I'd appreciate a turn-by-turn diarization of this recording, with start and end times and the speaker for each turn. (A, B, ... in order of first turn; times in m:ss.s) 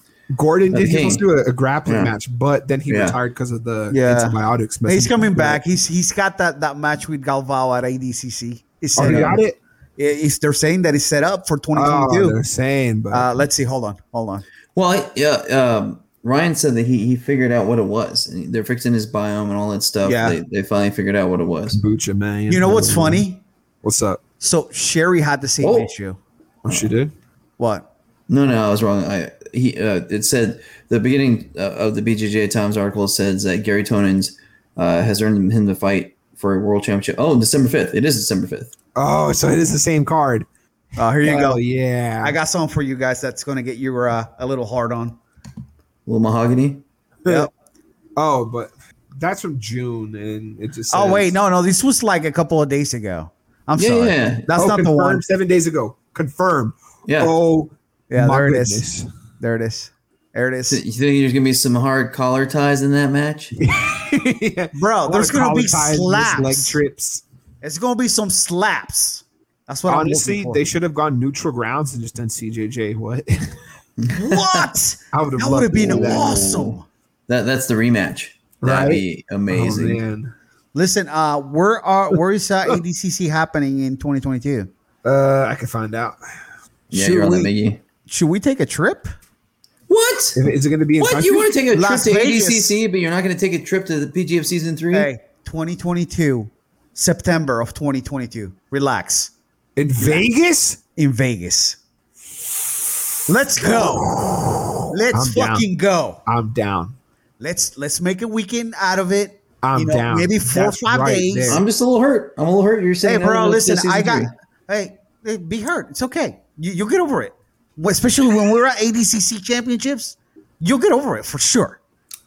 0:00.3-0:05.6 A
0:00.7-0:01.2 B
0:01.8-0:02.1 B
0:02.9-0:03.2 B
0:03.9-0:09.4 C
0:09.0-0:09.6 A
0:10.0-0:12.4 C
0:11.7-0:13.3 A
0:13.1-0:14.4 C
0:14.7-0:21.8 B
0:20.0-0:20.4 C
0:21.7-0:23.2 A
0:22.5-0:23.4 C
0:23.8-0:24.2 A
0:24.4-0:26.2 C
0:25.6-0:25.9 B
0:26.6-0:27.1 A
0:27.6-0:27.9 C
0:28.3-0:38.7 B
0:39.0-0:40.4 A
0:41.0-0:41.6 C
0:41.2-0:42.4 A
0:42.2-0:45.2 C
0:46.0-0:46.8 B
0:48.2-0:51.3 A
0:50.9-0:55.2 C
0:53.8-0:54.5 B
0:54.5-0:59.0 A
0:57.0-0:57.4 B
0:58.1-0:58.8 C
0:59.4-1:00.8 C
1:00.7-1:03.5 B
1:03.6-1:07.2 A
1:04.7-1:06.8 C
1:07.6-1:10.6 C
1:09.9-1:13.5 A
1:14.0-1:14.6 B
1:14.1-1:16.8 C
1:15.1-1:16.3 A
1:15.8-1:20.0 B
1:18.6-1:20.3 A
1:20.7-1:24.7 C
1:25.0-1:26.2 A
1:26.9-1:27.8 B
1:26.9-1:27.5 C
1:28.1-1:29.1 C
1:29.9-1:30.4 B
1:30.4-1:31.6 A
1:31.0-1:35.1 B
1:31.7-1:32.8 C
1:34.9-1:39.3 C
1:39.8-1:40.8 A
1:40.0-1:40.2 C
1:41.0-1:41.8 C
1:43.3-1:44.2 C
1:43.6-1:45.7 A
1:44.9-1:46.2 C
1:46.3-1:46.9 A
1:47.4-1:51.6 C
1:49.6-1:51.6 A
1:51.5-1:54.3 B
1:53.0-2:01.8 C